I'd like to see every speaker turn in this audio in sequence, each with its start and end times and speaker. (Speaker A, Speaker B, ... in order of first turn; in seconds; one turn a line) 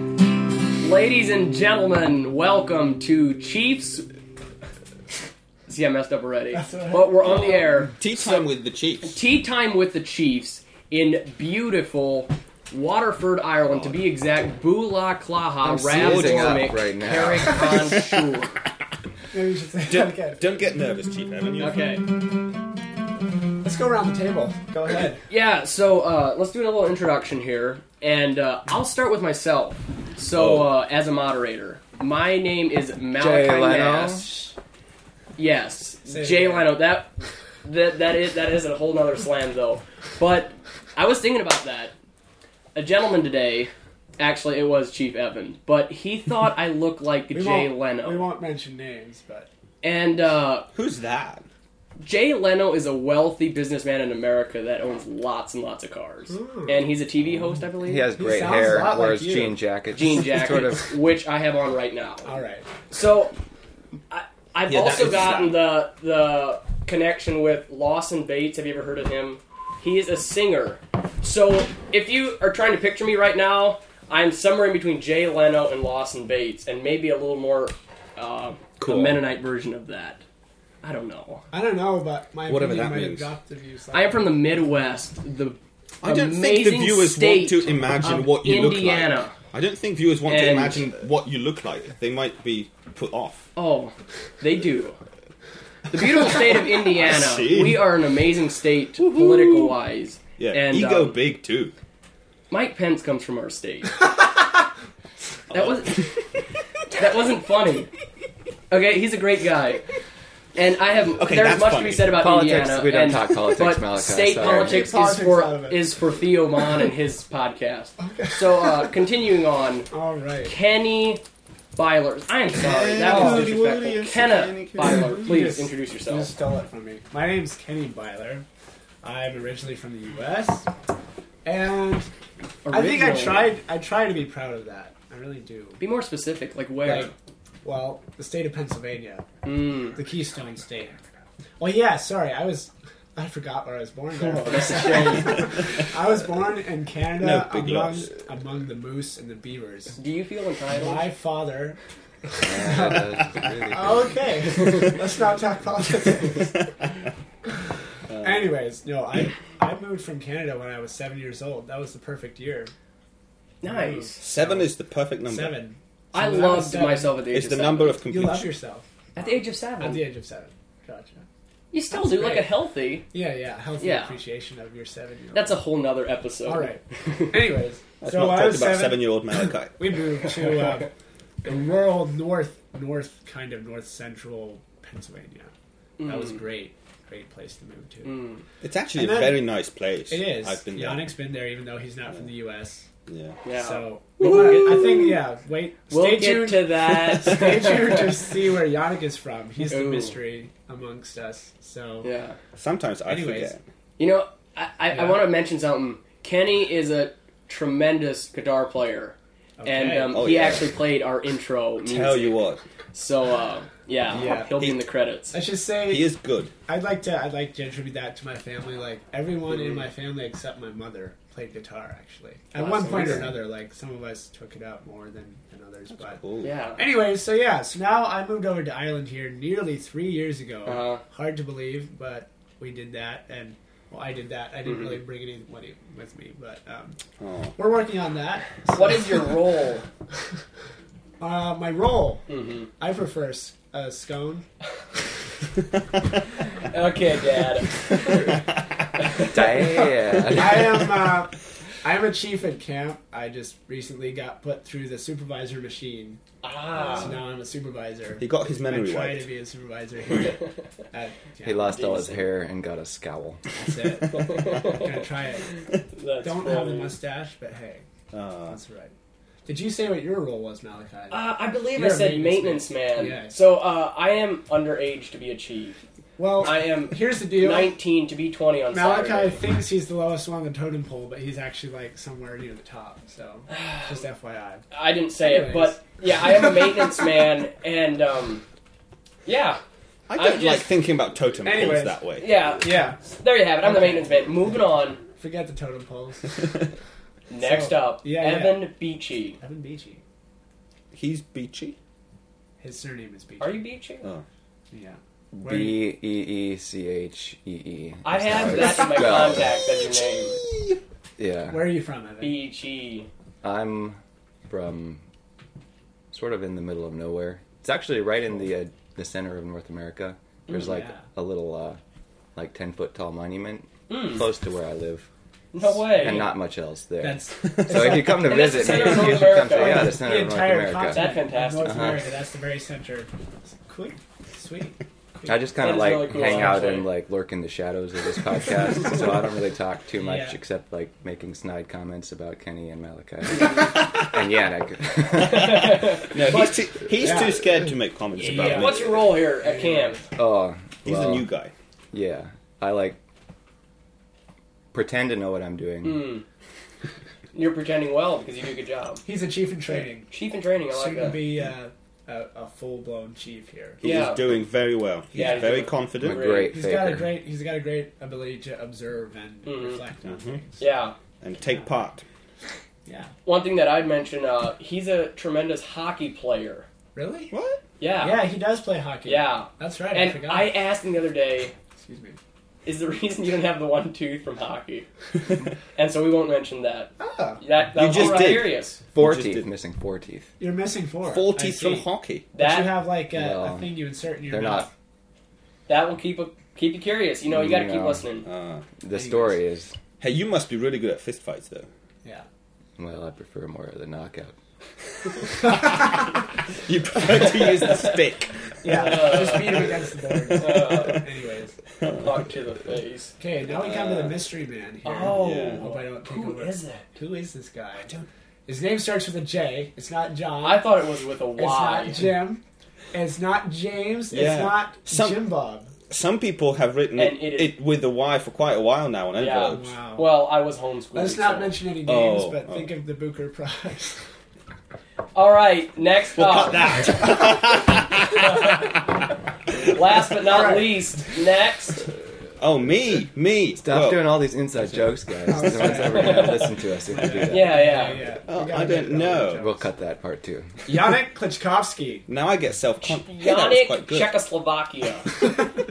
Speaker A: 0.8-4.1
Speaker A: 5.7-8.5
Speaker B: 6.5-7.6
Speaker C: 7.2-9.2
Speaker A: 9.0-18.6
Speaker C: 13.7-14.0
Speaker D: 15.6-17.8
Speaker C: 15.9-16.7
Speaker C: 17.5-18.1
Speaker B: 19.3-20.5
Speaker C: 19.9-21.9
Speaker A: 21.6-22.1
Speaker B: 23.6-25.2
Speaker A: 25.3-34.5
Speaker C: 30.3-30.7
Speaker D: 33.2-34.3
Speaker A: 35.4-41.9
Speaker B: 36.0-36.7
Speaker A: 42.7-48.3
Speaker B: 47.3-49.5
Speaker A: 49.8-50.7
Speaker C: 50.7-51.5
Speaker A: 52.0-58.1
Speaker B: 56.3-56.9
Speaker D: 57.8-60.9
Speaker B: 58.1-59.6
Speaker A: 59.9-62.3
Speaker B: 62.2-62.7
Speaker A: 62.9-63.4
Speaker A: 64.1-80.2
Speaker C: 64.7-65.6
Speaker D: 78.8-79.2
Speaker A: 80.8-81.4
Speaker B: 81.5-84.3
Speaker C: 82.5-83.3
Speaker A: 83.9-89.3
Speaker C: 86.0-93.5
Speaker A: 90.3-90.9
Speaker A: 93.6-95.0
Speaker A: 95.9-101.2
Speaker C: 96.8-97.9
Speaker C: 99.1-99.7
Speaker C: 100.4-101.7
Speaker A: 102.5-104.0
Speaker A: 105.5-106.1
Speaker C: 105.5-106.0
Speaker A: 106.9-107.9
Speaker A: 108.7-109.9
Speaker A: 110.5-119.9
Speaker C: 111.2-112.2
Speaker D: 112.1-114.9
Speaker B: 114.3-115.8
Speaker B: 118.0-118.9
Speaker B: 119.9-120.5
Speaker A: 120.4-121.2
Speaker A: 121.8-126.3
Speaker C: 122.6-125.2
Speaker B: 123.0-123.6
Speaker B: 124.8-128.4
Speaker B: 129.0-130.7
Speaker B: 131.4-132.1
Speaker A: 132.7-133.5
Speaker B: 132.7-135.8
Speaker A: 135.8-137.1
Speaker B: 136.8-139.3
Speaker A: 139.4-140.0
Speaker B: 139.9-141.0
Speaker B: 141.6-150.0
Speaker A: 144.1-145.5
Speaker C: 147.2-148.2
Speaker A: 150.0-151.1
Speaker B: 150.7-156.8
Speaker D: 152.4-154.3
Speaker B: 158.1-162.7
Speaker A: 163.6-164.2
Speaker B: 163.7-164.7
Speaker C: 164.2-165.6
Speaker B: 165.2-167.2
Speaker A: 166.1-168.0
Speaker C: 167.3-168.6
Speaker B: 168.1-168.9
Speaker A: 169.2-170.1
Speaker B: 169.8-171.2
Speaker A: 171.7-173.1
Speaker B: 171.9-172.5
Speaker B: 173.1-175.6
Speaker A: 173.8-174.2
Speaker A: 175.3-177.3
Speaker B: 176.4-180.9
Speaker C: 178.0-180.1
Speaker B: 181.4-185.5
Speaker A: 186.0-186.4
Speaker B: 186.0-188.2
Speaker A: 188.0-188.4
Speaker C: 188.6-191.1
Speaker B: 188.9-189.4
Speaker B: 190.1-192.9
Speaker C: 193.1-193.4
Speaker A: 193.4-195.2
Speaker B: 193.5-202.1
Speaker A: 195.9-198.2
Speaker A: 199.7-200.2
Speaker A: 202.0-202.4
Speaker C: 202.6-203.6
Speaker B: 203.1-203.5
Speaker A: 204.0-215.4
Speaker B: 204.9-205.3
Speaker B: 209.6-210.2
Speaker C: 210.1-210.8
Speaker C: 211.8-212.6
Speaker B: 214.1-214.6
Speaker C: 214.3-214.8
Speaker B: 215.3-216.1
Speaker C: 215.9-216.5
Speaker B: 216.7-226.2
Speaker A: 222.6-223.4
Speaker C: 225.9-226.5
Speaker A: 226.4-226.8
Speaker B: 226.8-237.0
Speaker A: 230.7-231.0
Speaker A: 234.7-235.0
Speaker C: 237.2-237.6
Speaker B: 237.6-239.4
Speaker A: 238.7-239.9
Speaker B: 241.2-242.3
Speaker A: 242.3-242.7
Speaker B: 242.8-244.5
Speaker A: 246.7-248.3
Speaker A: 249.0-249.9
Speaker D: 249.2-251.0
Speaker B: 249.4-256.2
Speaker A: 256.4-257.2
Speaker C: 256.8-257.2
Speaker B: 256.9-262.2
Speaker C: 258.2-259.3
Speaker D: 261.4-263.4
Speaker B: 263.6-265.6
Speaker A: 264.1-265.0
Speaker A: 265.9-266.9
Speaker B: 266.2-267.9
Speaker C: 268.1-268.6
Speaker B: 268.5-268.9
Speaker B: 269.4-273.4
Speaker A: 271.1-275.8
Speaker B: 276.2-277.7
Speaker A: 276.4-279.4
Speaker B: 278.7-285.8
Speaker A: 283.5-283.9
Speaker A: 284.7-288.4
Speaker A: 289.2-289.6
Speaker C: 290.1-292.3
Speaker A: 290.2-290.7
Speaker B: 291.4-294.6
Speaker A: 292.2-295.0
Speaker B: 295.2-296.6
Speaker A: 297.3-299.4
Speaker B: 297.3-298.7
Speaker B: 299.4-300.0
Speaker C: 300.9-301.8
Speaker B: 302.6-303.6
Speaker A: 303.4-304.1
Speaker B: 304.7-305.9
Speaker D: 305.3-309.6
Speaker A: 308.0-310.4
Speaker B: 308.9-309.3
Speaker C: 309.9-310.8
Speaker D: 311.2-311.7
Speaker B: 311.5-312.4
Speaker A: 312.2-313.1
Speaker D: 313.4-315.0
Speaker D: 316.1-321.8
Speaker B: 320.5-321.0
Speaker D: 322.4-325.1
Speaker A: 323.9-324.2
Speaker A: 325.5-326.3
Speaker D: 326.0-332.1
Speaker B: 327.0-335.5
Speaker C: 327.4-328.1
Speaker A: 328.2-330.0
Speaker A: 330.9-331.9
Speaker D: 335.2-345.8
Speaker A: 335.6-336.9
Speaker B: 336.1-336.6
Speaker B: 340.0-340.4
Speaker A: 345.2-346.7
Speaker C: 345.4-349.1
Speaker B: 347.0-347.4
Speaker A: 348.2-350.0
Speaker B: 348.2-350.1
Speaker D: 350.2-351.3
Speaker C: 350.8-351.5
Speaker D: 351.9-353.0
Speaker D: 354.7-356.2
Speaker A: 355.8-356.2
Speaker A: 357.3-359.0
Speaker B: 359.1-360.1
Speaker A: 360.1-361.2
Speaker B: 360.7-363.9
Speaker C: 363.8-366.3
Speaker A: 363.8-364.2
Speaker B: 365.1-365.7
Speaker A: 365.1-366.6
Speaker D: 366.0-367.2
Speaker B: 366.4-370.6
Speaker A: 369.4-369.8
Speaker C: 370.1-370.4
Speaker A: 370.6-370.9
Speaker C: 371.2-372.1
Speaker B: 371.4-371.7
Speaker B: 372.9-373.1
Speaker A: 373.2-376.7
Speaker B: 376.9-377.3
Speaker C: 377.3-377.6
Speaker A: 377.8-378.3
Speaker B: 378.0-380.6
Speaker A: 379.1-381.5
Speaker B: 381.8-382.2
Speaker A: 382.6-384.9
Speaker A: 385.8-388.8
Speaker B: 387.0-387.4
Speaker C: 387.8-389.5
Speaker D: 388.9-390.3
Speaker B: 390.4-394.7
Speaker C: 391.0-392.3
Speaker A: 392.3-392.8
Speaker D: 393.1-393.7
Speaker D: 394.3-394.7
Speaker A: 395.7-398.3
Speaker D: 397.3-398.1
Speaker C: 398.2-398.6
Speaker D: 398.8-399.8
Speaker B: 398.9-399.4
Speaker C: 400.0-401.7
Speaker D: 402.8-404.4
Speaker C: 405.2-406.0
Speaker C: 406.6-409.6
Speaker A: 407.4-408.0
Speaker B: 408.6-411.6
Speaker A: 408.6-409.7
Speaker A: 410.3-411.1
Speaker C: 411.8-412.1
Speaker A: 412.0-413.2
Speaker B: 413.2-417.9
Speaker C: 413.4-414.2
Speaker A: 414.9-416.9
Speaker C: 415.0-415.7
Speaker C: 417.8-418.1
Speaker B: 418.5-420.7
Speaker A: 420.4-422.2
Speaker B: 421.4-425.7
Speaker C: 424.1-425.2
Speaker C: 425.9-429.8
Speaker A: 426.9-427.6
Speaker A: 429.2-431.6
Speaker B: 429.5-430.2
Speaker B: 430.9-434.0
Speaker C: 431.9-432.7
Speaker A: 435.1-436.9
Speaker C: 436.2-438.6
Speaker A: 438.2-438.7
Speaker A: 439.6-441.9
Speaker B: 440.2-440.9
Speaker C: 442.4-444.2
Speaker D: 443.6-447.8
Speaker B: 445.3-449.6
Speaker A: 445.9-446.5
Speaker A: 447.2-448.0
Speaker C: 448.2-449.4
Speaker D: 449.4-450.6
Speaker B: 450.7-452.1
Speaker C: 452.1-454.2
Speaker A: 452.9-455.2